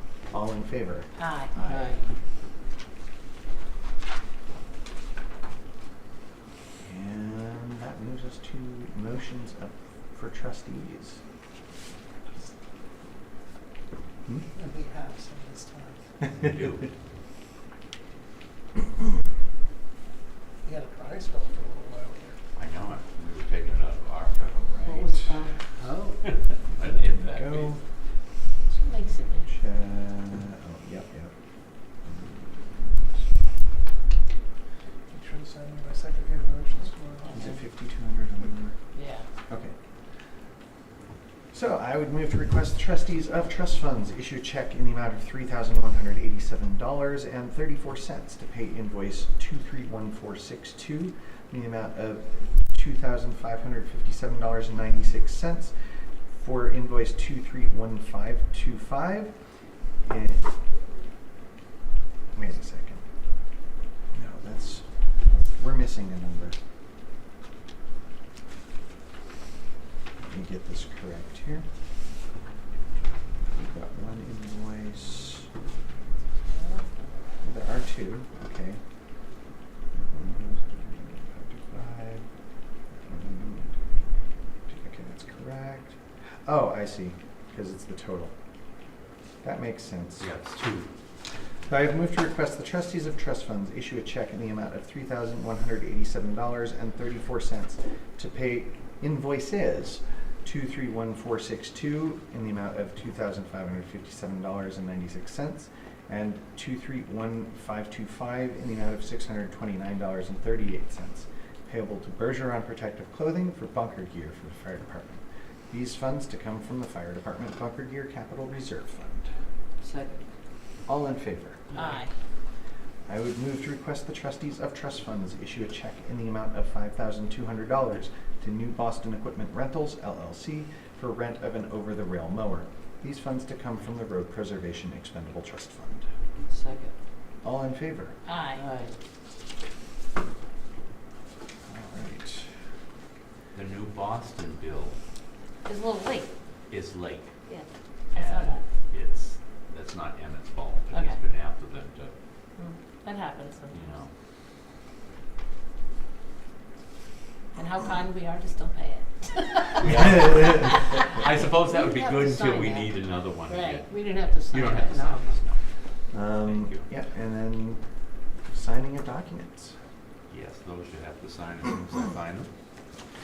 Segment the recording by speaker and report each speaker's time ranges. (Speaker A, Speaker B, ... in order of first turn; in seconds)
Speaker A: 0.3-1.9, 6.8-11.2, 24.6-25.4, 27.3-27.8, 29.5-31.3, 32.1-33.0, 37.3-38.8, 41.5-55.7, 56.3-59.3, 60.0-60.5, 62.3-63.0, 64.1-64.8, 65.4-66.5, 70.2-71.7, 73.5-75.5, 77.4-78.8, 79.9-82.2, 83.0-84.0, 84.7-88.3, 89.4-90.3, 91.7-119.3, 120.9-121.6, 123.1-136.0, 137.4-138.1, 141.7-142.5, 159.9-160.6, 166.1-167.8, 168.5-169.8
Speaker B: 1.1-1.5, 28.7-29.5, 39.0-39.2, 76.5-76.9, 121.8-122.1, 138.2-138.6, 145.6-146.3, 147.5-148.6, 152.6-153.9, 157.6-159.8, 160.5-162.9, 163.4-165.4
Speaker C: 1.6-2.0, 24.8-26.2, 119.8-120.1, 121.7-122.0, 136.5-136.9, 138.6-138.9
Speaker D: 14.6-16.0, 20.7-22.3
Speaker E: 16.3-16.9, 22.6-24.6, 26.7-27.7, 90.2-90.9, 143.5-145.0, 146.7-147.3, 148.1-152.1, 153.7-154.1, 159.8-165.6, 166.3-166.9, 170.3-172.5